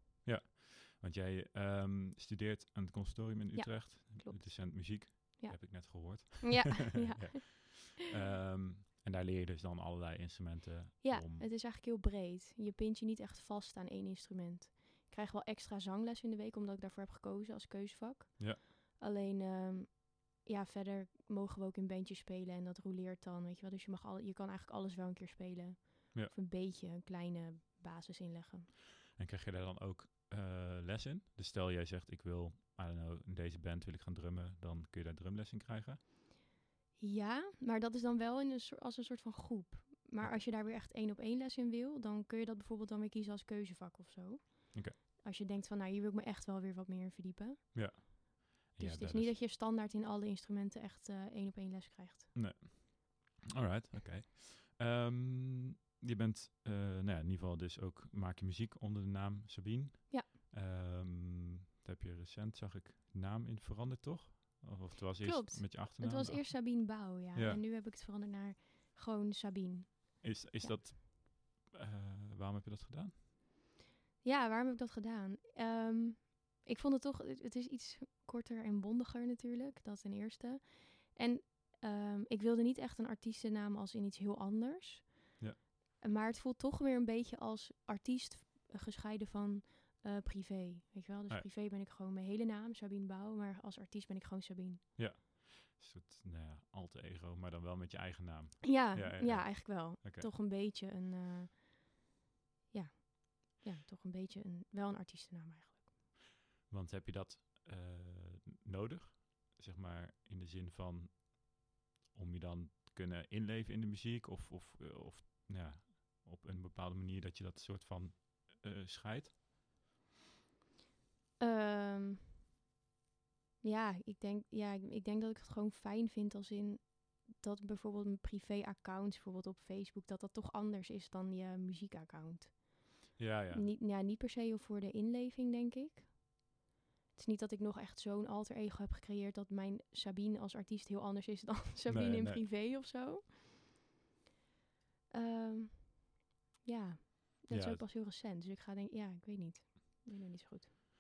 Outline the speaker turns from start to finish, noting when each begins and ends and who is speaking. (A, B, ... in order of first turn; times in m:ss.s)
0:00.2-0:11.5 A
0:03.5-0:07.9 B
0:11.0-0:28.7 B
0:29.2-0:36.0 A
0:37.0-0:48.0 B
0:40.2-0:40.5 A
0:47.7-0:49.4 A
0:48.8-0:52.3 B
0:52.4-1:07.6 A
1:05.2-1:10.8 B
1:10.2-1:13.1 A
1:14.2-1:25.4 B
1:26.0-1:34.9 B
1:35.0-1:40.3 A
1:38.6-1:42.0 B
1:42.7-1:45.9 B
1:46.7-1:59.4 A
2:01.4-2:02.4 B
2:03.6-2:16.4 B
2:13.2-2:13.7 A
2:17.2-2:23.3 B
2:21.9-2:22.4 A
2:25.1-2:30.7 B
2:27.5-2:27.8 A